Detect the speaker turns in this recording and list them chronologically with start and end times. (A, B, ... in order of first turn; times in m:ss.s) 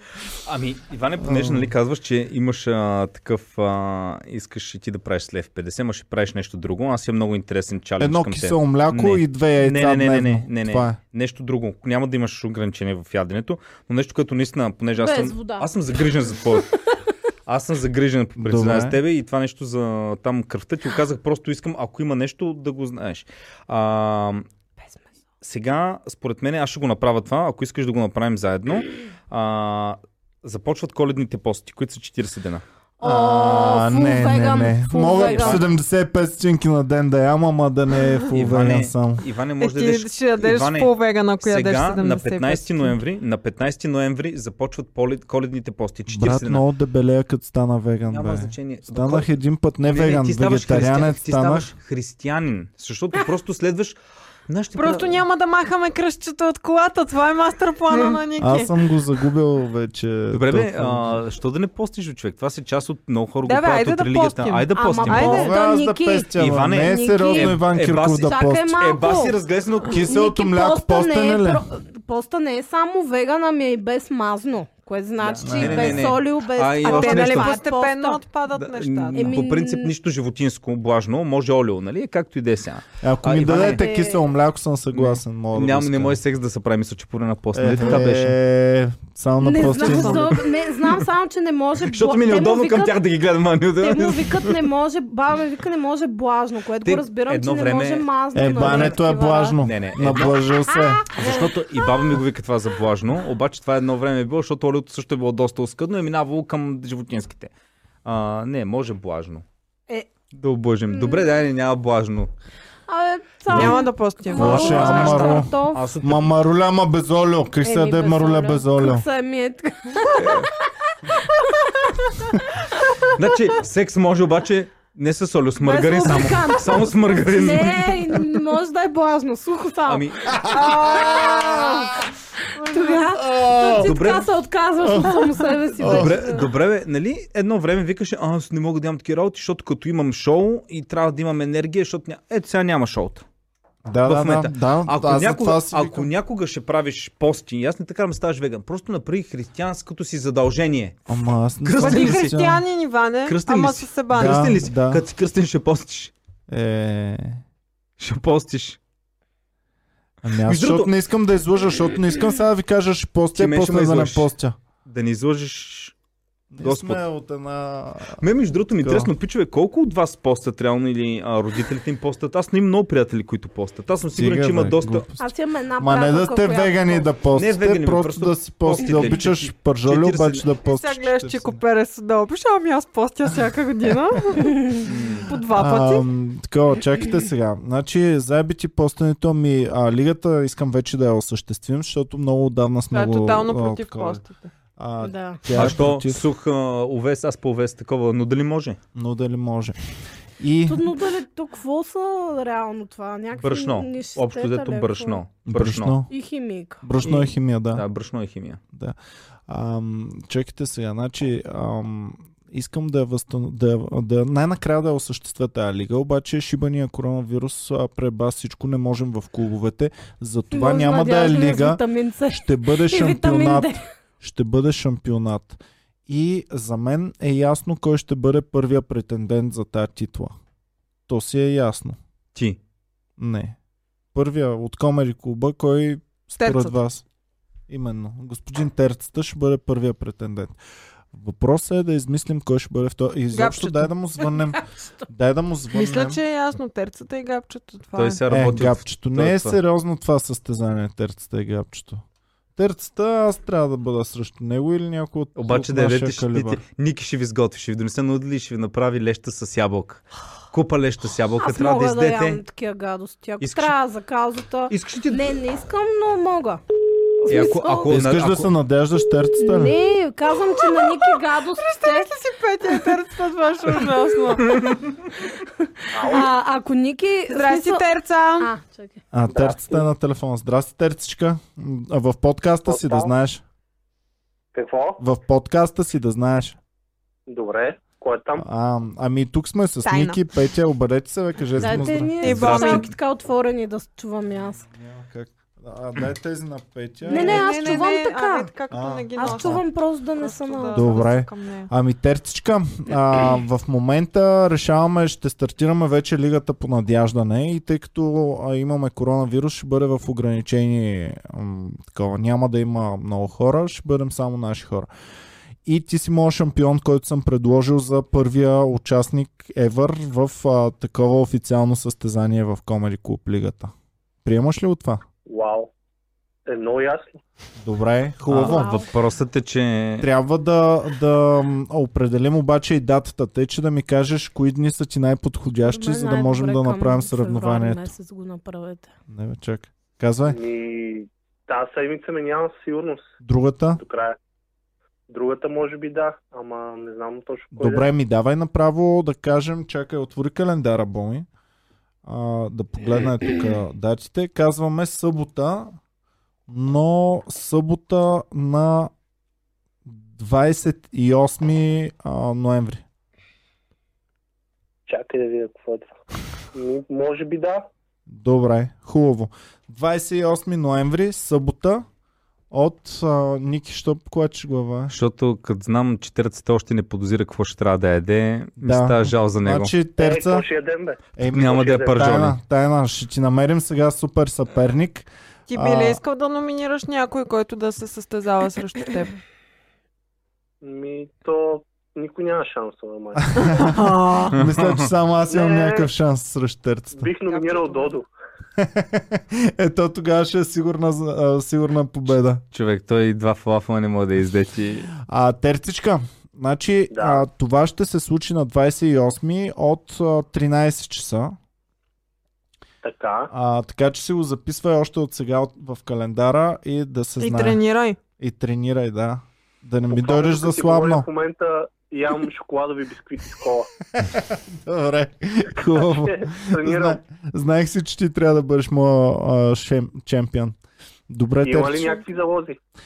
0:00.4-0:16.7 A
0:01.2-0:01.7 B
0:08.0-0:11.0 B
0:15.0-0:15.7 C
0:17.4-0:24.5 A
0:18.4-0:19.0 B
0:25.4-0:32.6 A
0:33.0-0:35.6 C
0:33.0-0:39.2 B
0:35.1-0:35.7 A
0:38.3-0:46.6 A
0:39.6-0:43.0 D
0:46.1-0:51.7 B
0:48.1-0:49.3 A
0:49.8-0:54.0 A
0:54.5-0:55.2 A
0:54.8-0:58.8 D
0:58.4-1:01.2 B
1:00.3-1:05.5 A
1:03.4-1:05.5 D
1:04.7-1:06.3 C
1:05.0-1:08.8 B
1:06.3-1:10.1 A
1:06.8-1:07.6 C
1:08.2-1:09.3 C
1:09.9-1:11.6 B
1:10.1-1:18.2 C
1:15.2-1:17.6 A
1:15.4-1:16.2 B
1:16.8-1:19.4 D
1:18.5-1:23.8 A
1:19.1-1:19.9 C
1:23.0-1:26.2 B
1:23.5-1:24.2 C
1:24.9-1:28.4 A
1:27.5-1:30.3 B
1:29.4-1:32.9 C
1:29.7-1:30.3 D
1:31.8-1:34.6 A
1:33.8-1:39.6 C
1:36.8-1:39.0 A
1:38.3-1:41.1 B
1:39.6-1:40.4 A
1:40.7-1:41.5 C
1:41.1-1:47.5 A
1:48.0-1:49.4 A
1:50.3-1:52.3 A
1:50.9-1:51.2 C
1:52.9-1:55.8 C
1:53.5-1:55.1 D
1:54.3-1:59.0 B
1:54.3-1:56.3 A
1:57.6-2:00.5 C
2:00.1-2:00.5 A
2:01.0-2:03.1 C
2:03.1-2:08.2 A
2:05.6-2:11.9 C
2:09.9-2:10.4 A
2:10.3-2:12.1 B
2:10.6-2:12.0 D
2:12.6-2:13.1 D
2:12.6-2:16.5 C
2:13.2-2:13.9 B
2:13.8-2:14.3 A
2:14.8-2:15.1 B
2:15.7-2:16.2 B
2:15.8-2:23.2 A
2:23.8-2:26.1 B
2:24.0-2:32.4 A
2:31.1-2:32.6 B
2:31.8-2:34.6 D
2:33.2-2:36.1 A
2:34.1-2:35.0 B
2:36.5-2:37.4 B
2:38.0-2:38.8 A
2:40.2-2:44.6 B
2:40.4-2:40.9 A
2:43.4-2:44.3 A
2:44.8-2:45.9 A
2:46.5-2:48.2 B
2:46.6-2:47.0 A
2:48.2-2:55.1 A
2:48.8-2:49.1 B
2:54.1-3:01.6 B
2:55.2-2:57.1 C
2:57.3-3:00.4 A
3:00.6-3:06.0 D
3:04.8-3:05.3 A
3:05.5-3:14.2 B
3:12.9-3:14.5 D
3:14.8-3:16.2 B
3:15.0-3:15.4 C
3:15.5-3:18.8 A
3:18.9-3:19.8 B
3:20.4-3:20.9 B
3:20.7-3:25.2 C
3:23.4-3:26.0 A
3:25.4-3:26.1 B
3:26.1-3:26.8 C
3:26.8-3:27.8 B
3:27.0-3:28.6 A
3:29.5-3:50.4 B
3:40.5-3:43.8 C
3:51.1-3:52.0 B
3:53.2-3:53.6 B
3:54.1-3:57.0 B
3:56.4-3:56.8 D
3:57.7-4:00.6 B
4:01.1-4:06.2 B
4:03.3-4:03.9 D
4:05.7-4:08.2 D
4:07.9-4:09.6 A
4:08.3-4:12.0 B
4:12.6-4:16.6 B
4:15.4-4:22.4 A
4:21.4-4:26.6 C
4:23.4-4:23.7 A
4:24.7-4:25.3 A
4:27.2-4:27.9 C
4:27.3-4:28.5 A
4:27.9-4:29.7 B
4:29.4-4:32.1 C
4:30.6-4:34.7 D
4:35.2-4:37.8 C
4:35.9-4:36.3 E
4:37.3-4:38.5 D
4:38.4-4:39.0 C
4:39.1-4:43.4 B
4:39.3-4:39.9 E
4:42.7-4:43.1 E
4:44.5-4:45.0 E
4:45.0-4:46.6 B
4:47.3-4:48.4 E
4:48.4-4:52.4 B
4:49.8-4:50.2 D
4:51.6-4:54.6 C
4:52.2-4:52.9 D
4:52.2-4:52.9 A
4:54.7-4:57.5 B
4:57.0-5:01.7 D
4:57.1-4:58.5 C
4:58.7-4:59.6 B
4:59.2-5:01.0 C
5:00.7-5:14.9 B
5:15.6-5:23.7 B
5:24.2-5:25.0 B
5:25.3-5:25.7 E
5:26.5-5:27.2 E
5:27.6-5:28.7 B
5:28.3-5:30.1 A
5:28.4-5:28.9 C
5:30.0-5:37.9 B
5:35.7-5:38.9 C
5:39.1-5:40.4 B
5:40.3-5:43.0 E
5:43.2-5:43.8 B
5:43.8-5:44.2 E
5:45.1-5:47.8 E
5:47.5-5:51.3 B
5:52.0-5:55.8 B
5:56.5-5:58.9 B
5:59.8-6:02.8 B
6:04.9-6:05.9 E
6:06.5-6:07.7 E
6:08.1-6:11.8 B
6:12.5-6:14.9 B
6:14.9-6:19.7 A
6:18.6-6:20.4 B
6:20.0-6:22.1 E
6:21.2-6:26.0 B
6:21.3-6:22.4 A
6:25.5-6:29.2 D
6:30.6-6:33.7 E
6:33.2-6:37.1 B
6:33.4-6:34.4 D
6:34.3-6:34.9 A
6:35.3-6:35.9 E
6:36.9-6:38.1 E
6:37.2-6:38.0 D
6:38.6-6:42.4 B
6:42.5-6:44.9 A
6:45.0-6:51.4 B
6:46.9-6:47.2 E
6:52.8-6:53.3 E
6:53.3-6:57.6 B
6:57.2-6:58.0 D
6:58.2-7:01.1 B
6:59.9-7:03.7 E
7:03.9-7:10.6 B
7:05.7-7:07.0 E
7:11.1-7:12.0 B
7:11.4-7:12.6 E